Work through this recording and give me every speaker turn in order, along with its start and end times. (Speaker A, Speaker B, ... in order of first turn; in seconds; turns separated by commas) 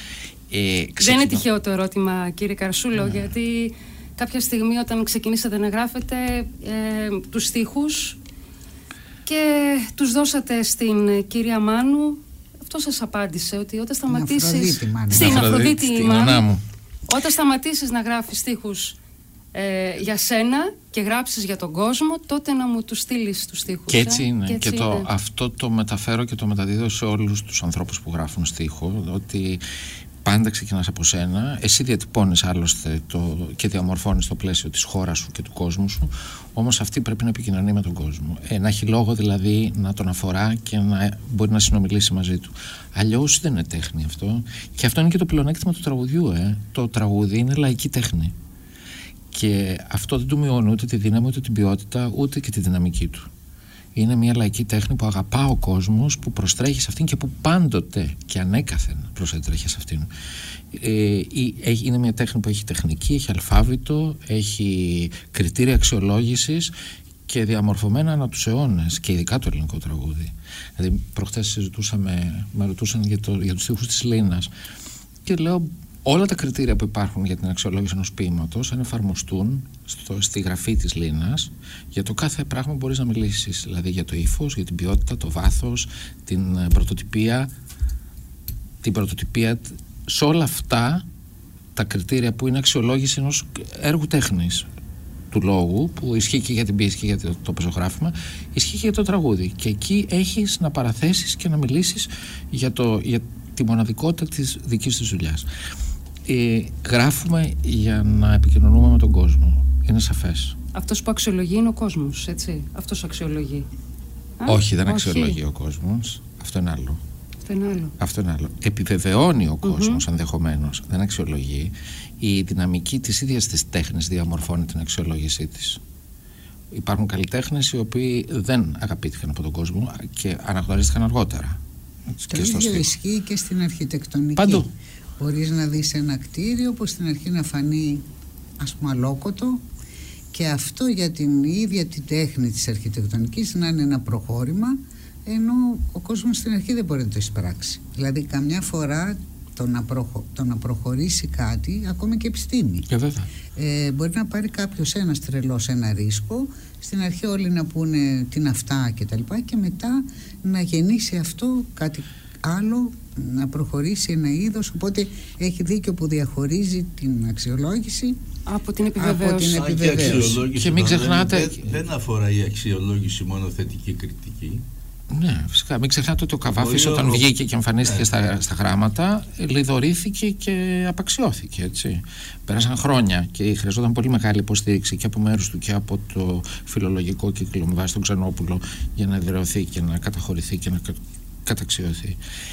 Speaker A: 0.5-1.4, Speaker B: 1.0-8.2, Speaker A: 3.0-3.3, Speaker B: 9.2-16.4, Speaker C: 14.1-15.5, Speaker A: 15.1-16.6, Speaker B: 17.1-18.9, Speaker B: 19.5-25.1, Speaker A: 23.9-29.6, Speaker A: 30.2-48.3, Speaker A: 49.3-53.3, Speaker A: 53.9-60.1, Speaker A: 60.7-66.7, Speaker A: 67.3-74.5, Speaker A: 75.2-87.5, Speaker A: 88.8-91.0, Speaker A: 91.8-94.7, Speaker A: 95.3-105.5, Speaker A: 106.2-110.5, Speaker B: 110.7-113.7, Speaker B: 114.4-115.4, Speaker A: 114.5-117.0, Speaker B: 117.5-117.9, Speaker A: 118.0-125.8, Speaker B: 119.6-120.0, Speaker A: 126.7-131.6, Speaker A: 132.2-132.9, Speaker C: 132.3-134.7, Speaker A: 134.3-134.7, Speaker C: 135.2-138.0, Speaker C: 138.6-139.6, Speaker C: 140.3-152.9, Speaker A: 152.9-153.3, Speaker C: 153.5-168.2, Speaker B: 168.4-169.7, Speaker C: 168.9-170.4, Speaker D: 169.4-174.6, Speaker A: 170.2-171.8, Speaker A: 175.1-192.2, Speaker D: 176.5-177.3, Speaker D: 177.8-178.1